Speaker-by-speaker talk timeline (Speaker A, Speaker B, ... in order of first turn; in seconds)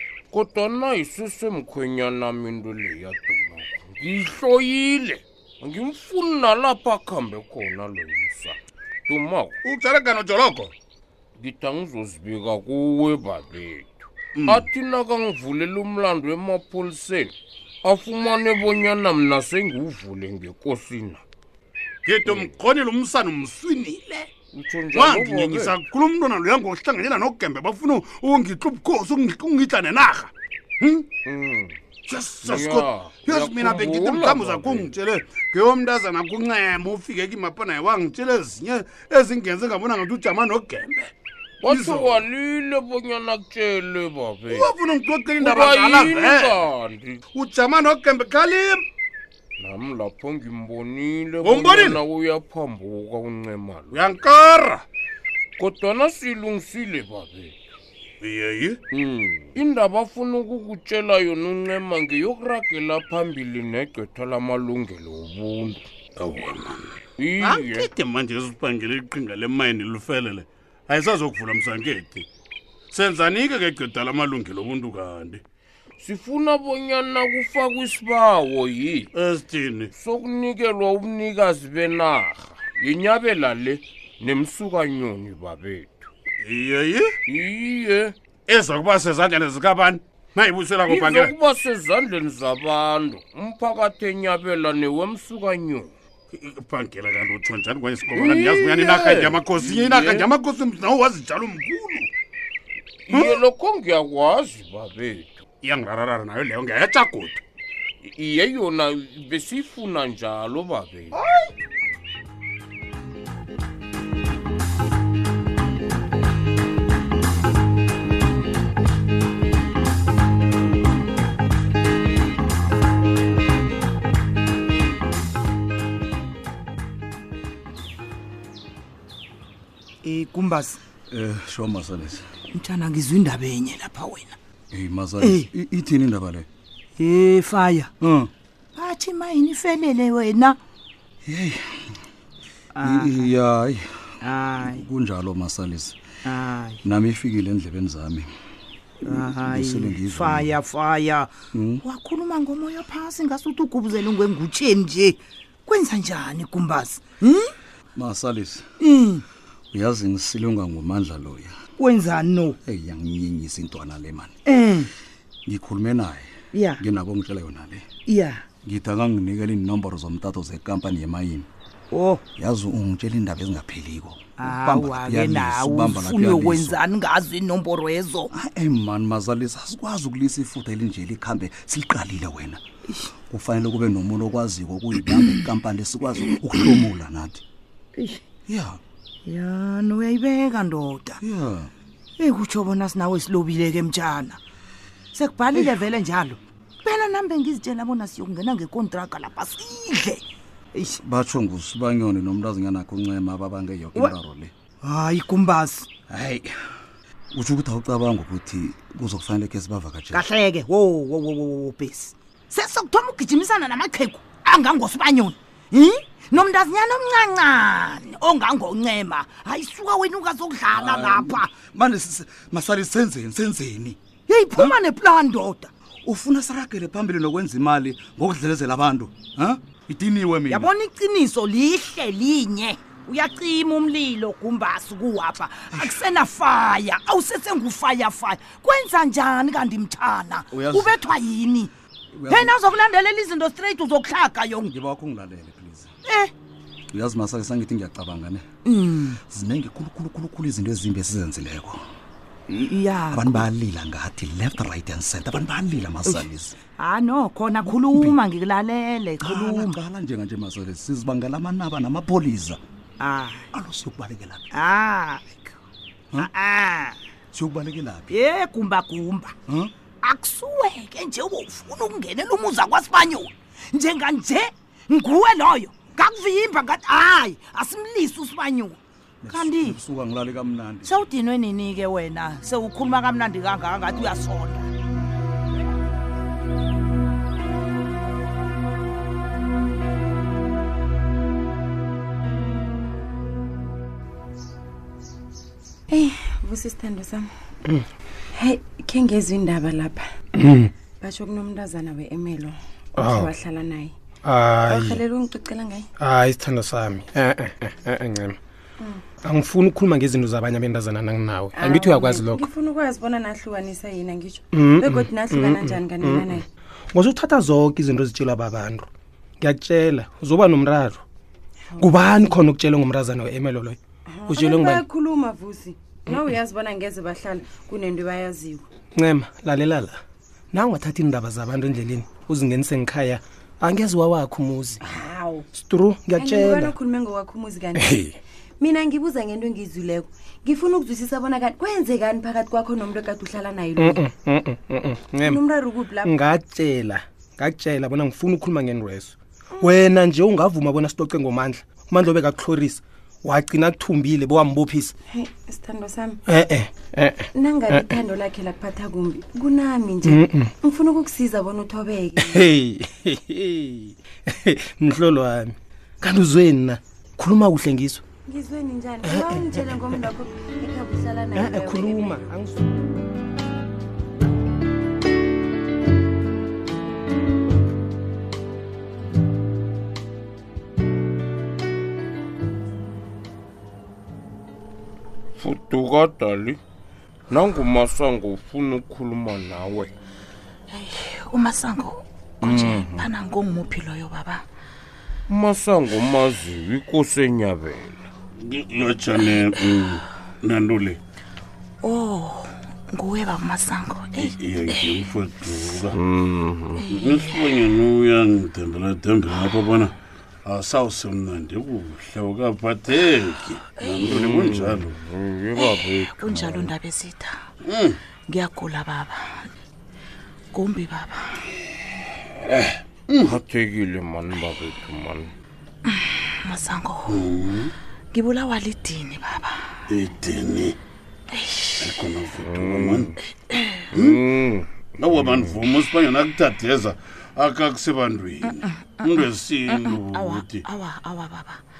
Speaker A: 0.3-9.6, 11.4-21.2, 22.3-22.5, 24.5-25.8, 31.3-31.8, 32.4-34.9, 41.6-44.7, 45.4-47.2, 49.6-54.3, 55.6-57.5, 58.9-65.9, 67.2-67.9, 76.0-79.1, 80.0-86.1, 87.3-88.2, 90.9-95.9, 98.1-100.3, 103.1-105.5, 108.0-111.2, 385.4-386.6, 387.3-389.9, 392.4-393.1, 395.3-398.1, 405.9-406.9, 414.0-416.7, 423.2-425.3, 432.4-433.1, 433.9-435.6
Speaker B: 9.6-10.7, 14.3-14.7, 22.1-24.3, 24.9-31.1, 32.1-41.1, 41.6-42.2, 44.5-46.6, 47.3-48.8, 51.4-52.0, 53.9-54.8, 58.2-58.8, 66.2-72.3, 72.9-75.4, 79.1-79.9, 86.4-87.1, 88.5-91.3, 96.3-102.1, 105.6-107.4, 398.4-401.0, 404.2-406.0, 406.9-409.9, 410.4-414.9, 417.6-418.0, 422.4-423.4, 427.1-427.7, 429.9-430.8, 431.8-433.1, 435.0-440.6
Speaker C: 130.0-130.8, 132.5-134.4, 135.2-135.5, 137.0-137.9, 138.8-140.6, 142.7-143.2, 144.2-144.8, 146.2-146.8, 149.0-151.3, 151.8-157.5, 158.8-159.2, 161.8-162.6, 164.5-164.9, 166.5-166.8, 168.1-168.4, 171.9-172.2, 174.4-178.3, 189.2-191.2, 192.2-194.4, 195.1-201.0, 204.8-205.9, 210.1-221.5, 224.3-225.7, 230.5-241.7, 242.3-244.7, 246.0-246.3, 248.7-249.2, 252.5-253.4, 256.8-259.8, 263.0-263.5, 264.5-265.5, 266.2-267.0, 268.1-269.4, 270.0-279.8, 280.9-284.7
Speaker D: 131.1-132.3, 134.7-136.5, 138.0-138.3, 141.2-141.9, 142.8-146.0, 146.8-148.3, 149.0-150.6, 151.5-151.8, 157.9-158.7, 159.7-161.6, 162.6-164.3, 165.5-167.9, 168.6-171.5, 172.3-176.8, 178.3-182.6, 183.2-187.4, 188.5-188.8, 191.2-191.7, 195.5-195.8, 201.0-204.5, 206.1-206.5, 207.3-210.2, 220.7-224.0, 226.0-230.7, 235.7-236.0, 240.5-241.1, 242.1-242.6, 244.6-245.9, 246.9-251.8, 253.1-256.6, 257.6-258.2, 259.2-262.6, 263.5-264.6, 267.3-268.2, 279.2-280.9
Speaker E: 295.9-297.2, 298.4-300.0, 301.0-303.9, 304.7-305.9, 311.5-316.4, 321.8-322.3, 324.1-328.6, 334.9-335.5, 336.1-337.9, 338.6-344.1, 345.2-346.1, 355.1-356.2, 357.3-362.4, 368.3-372.2
Speaker F: 300.4-300.7, 303.0-303.3, 304.2-305.0, 306.0-308.4, 309.2-312.4, 314.5-316.4, 316.9-318.9, 319.4-321.0, 321.8-324.8, 329.0-330.0, 330.5-334.8, 335.5-336.7, 337.8-338.1, 343.8-345.4, 346.0-354.9, 356.2-357.9, 360.0-360.5, 362.2-363.9, 364.5-368.0, 369.1-369.5, 371.4-372.7
Speaker G: 390.7-394.4, 401.8-405.1, 406.8-407.7, 413.6-414.1, 415.6-417.3, 418.3-419.2, 420.5-421.2, 426.4-427.2, 428.1-429.5, 431.4-432.0, 433.5-433.9, 438.4-441.6